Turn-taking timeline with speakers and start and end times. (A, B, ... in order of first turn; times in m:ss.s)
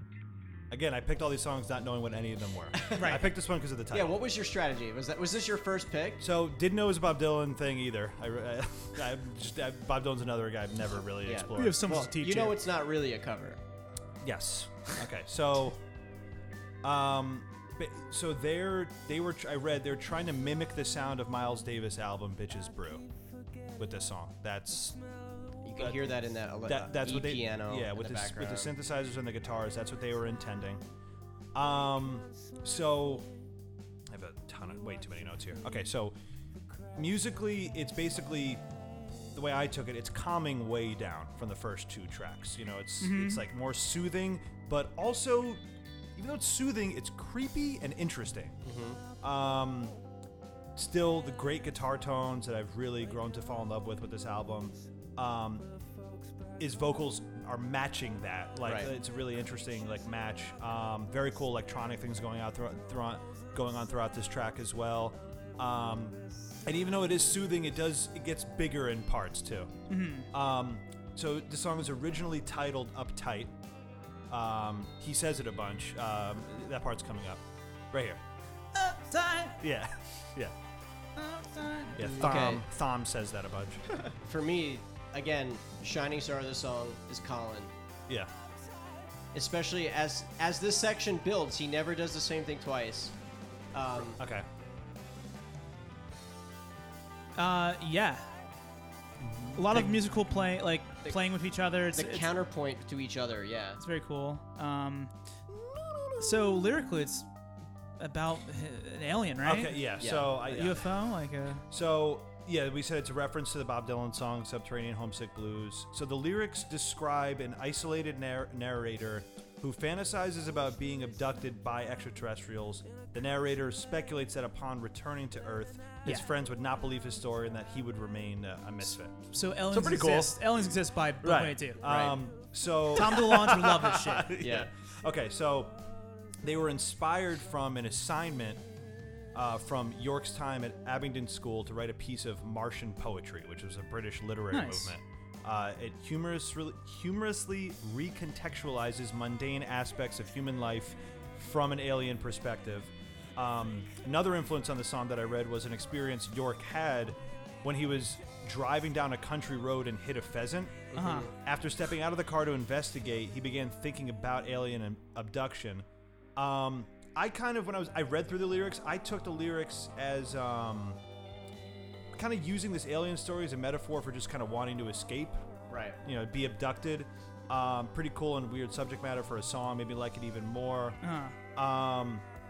0:00.7-0:04.2 A
0:02.8-0:03.2 B
0:03.0-0:03.2 C
0:03.9-0:06.2 B
0:06.2-0:11.8 A
0:11.2-0:13.6 B
0:11.5-0:12.6 C
0:14.2-0:15.8 A
0:16.8-0:23.0 A
0:23.8-0:25.0 A
0:25.6-0:28.7 B
0:26.7-0:30.8 A
0:31.5-0:33.2 A
0:34.1-0:36.1 A
0:36.9-0:38.6 A
0:39.3-0:45.6 A
0:43.0-0:43.4 C
0:46.2-0:48.6 A
0:48.6-0:49.0 B
0:49.2-0:50.0 A
0:50.7-0:55.7 A
0:56.6-1:09.7 A
0:58.6-0:58.9 B
1:09.9-1:10.3 C
1:10.3-1:13.5 A
1:14.3-1:18.2 A
1:18.7-1:19.6 C
1:19.6-1:20.5 A
1:21.2-1:22.5 C
1:21.9-1:23.9 A
1:22.2-1:22.6 B
1:24.2-1:27.7 B
1:29.3-1:33.1 B
1:33.7-1:34.2 B
1:34.2-1:34.5 A
1:37.4-1:38.3 C
1:39.2-1:39.8 A
1:39.5-1:42.3 C
1:41.9-1:43.8 B
1:43.8-1:45.1 C
1:46.2-1:47.3 C
1:48.0-1:49.9 C
1:49.4-1:50.8 A
1:50.0-1:50.3 B
1:50.4-1:51.6 C
1:51.7-2:10.4 A
2:08.8-2:11.8 C
2:11.2-2:15.8 A
2:11.8-2:12.2 B
2:12.9-2:14.3 C
2:14.4-2:14.7 B
2:16.4-2:18.6 A
2:19.3-2:45.8 A
2:24.5-2:24.9 C
2:40.9-2:41.3 B
2:40.9-2:41.3 C
2:46.4-2:51.0 A
2:52.1-2:55.4 A
2:55.7-2:56.0 B
2:56.0-3:01.0 A
3:01.0-3:01.4 C
3:01.5-3:02.2 A